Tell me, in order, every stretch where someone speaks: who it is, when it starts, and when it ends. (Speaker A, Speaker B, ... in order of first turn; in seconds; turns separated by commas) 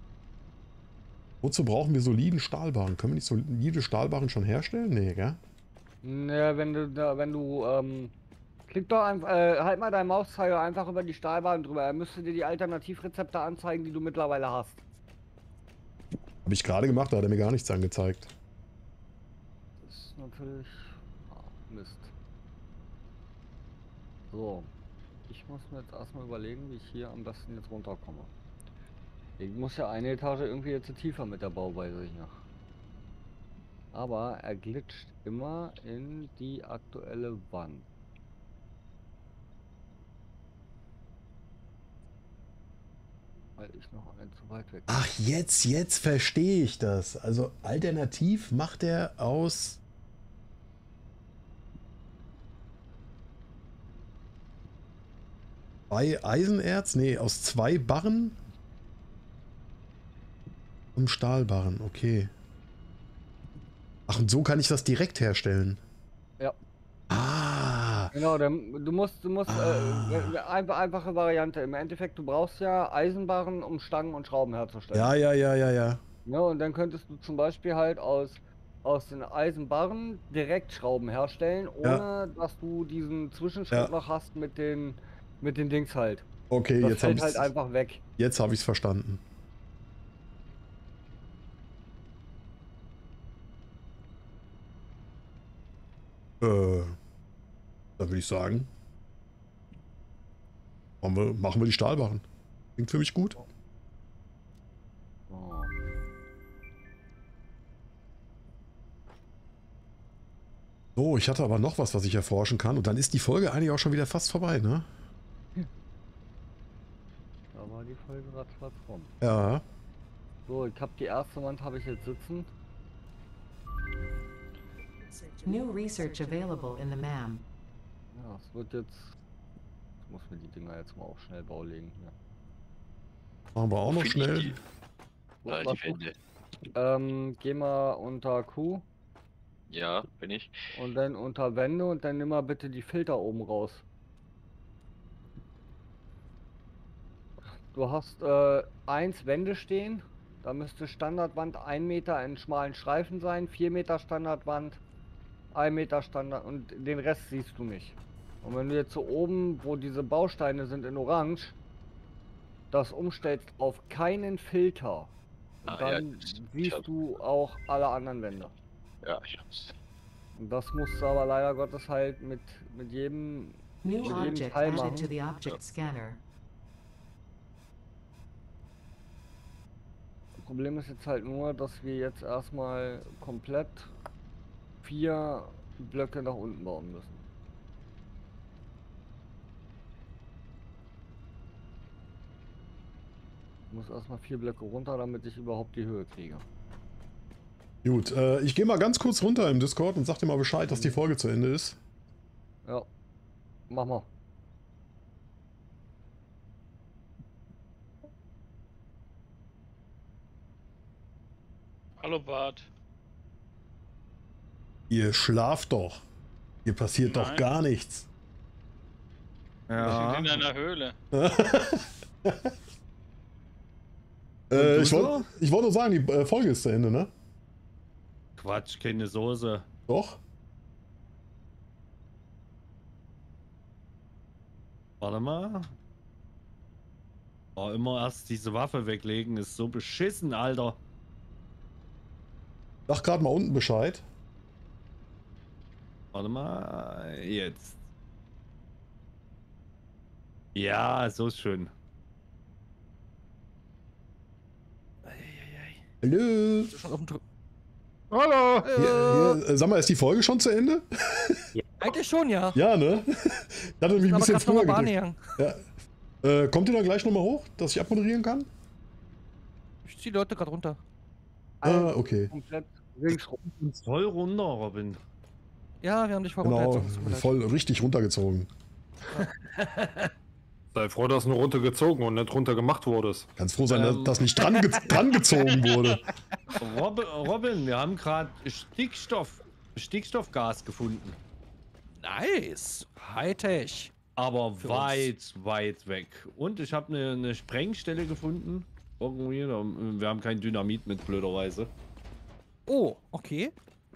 Speaker A: 1.4-5.4, Speaker B: 6.0-8.1, Speaker B: 8.7-14.8, Speaker A: 16.4-18.3, Speaker B: 19.8-22.1, Speaker B: 24.3-24.7, Speaker B: 25.3-28.3, Speaker B: 29.4-32.4, Speaker B: 33.9-37.9, Speaker B: 43.6-45.1, Speaker A: 44.9-49.8, Speaker A: 55.9-58.4, Speaker A: 61.0-62.3, Speaker A: 64.1-65.8, Speaker A: 67.1-68.1, Speaker B: 68.1-75.1, Speaker A: 69.5-70.3, Speaker A: 74.9-76.0, Speaker B: 76.2-86.3, Speaker A: 86.5-87.5, Speaker B: 86.8-88.0, Speaker A: 88.2-89.2, Speaker A: 96.4-97.0, Speaker A: 98.0-98.7, Speaker A: 101.0-102.2, Speaker A: 102.8-103.4, Speaker B: 105.3-105.7, Speaker A: 111.0-114.9, Speaker B: 117.5-119.1, Speaker A: 119.2-119.6, Speaker B: 120.5-122.5, Speaker C: 125.4-127.5, Speaker B: 128.1-129.2, Speaker B: 130.1-132.2, Speaker A: 133.6-134.6, Speaker D: 133.9-134.6, Speaker B: 135.4-136.0, Speaker D: 135.5-136.2, Speaker B: 136.8-138.9, Speaker D: 139.7-140.7, Speaker B: 140.7-143.8, Speaker B: 147.7-154.8, Speaker B: 155.5-161.6, Speaker B: 162.7-165.1, Speaker B: 165.7-168.5, Speaker D: 165.7-166.9, Speaker D: 169.0-169.8, Speaker B: 170.4-175.1, Speaker C: 173.8-176.2, Speaker B: 180.4-183.9, Speaker B: 184.8-187.2, Speaker B: 193.7-196.5, Speaker A: 197.8-201.8, Speaker B: 200.7-201.0, Speaker B: 203.7-204.1, Speaker E: 212.0-212.7, Speaker A: 214.9-216.0, Speaker A: 216.7-218.1, Speaker E: 217.0-217.5, Speaker F: 219.7-220.5, Speaker E: 219.8-221.0, Speaker A: 221.1-222.5, Speaker A: 224.5-227.1, Speaker F: 224.5-225.2, Speaker F: 228.4-229.7, Speaker A: 229.9-230.2, Speaker F: 235.0-235.8, Speaker F: 237.6-240.8, Speaker A: 242.9-244.0, Speaker F: 246.1-247.8, Speaker F: 250.6-251.7, Speaker G: 255.1-255.8, Speaker A: 256.0-256.7, Speaker G: 256.7-257.2, Speaker H: 258.1-258.6, Speaker G: 258.6-259.4, Speaker A: 258.8-261.4, Speaker H: 261.6-261.9, Speaker G: 261.8-262.6, Speaker A: 262.5-265.7, Speaker G: 264.0-265.2, Speaker A: 266.2-268.5, Speaker G: 269.9-270.8, Speaker B: 271.6-273.4, Speaker A: 271.6-272.3, Speaker A: 273.4-273.8, Speaker F: 273.8-275.0, Speaker G: 275.8-277.4, Speaker A: 276.4-278.5, Speaker G: 279.1-280.0, Speaker H: 280.7-283.3, Speaker A: 283.4-286.0, Speaker F: 283.7-284.2, Speaker G: 285.4-285.9, Speaker F: 286.6-291.2, Speaker G: 291.9-293.9, Speaker F: 294.2-301.7, Speaker G: 294.6-295.1, Speaker G: 302.7-303.5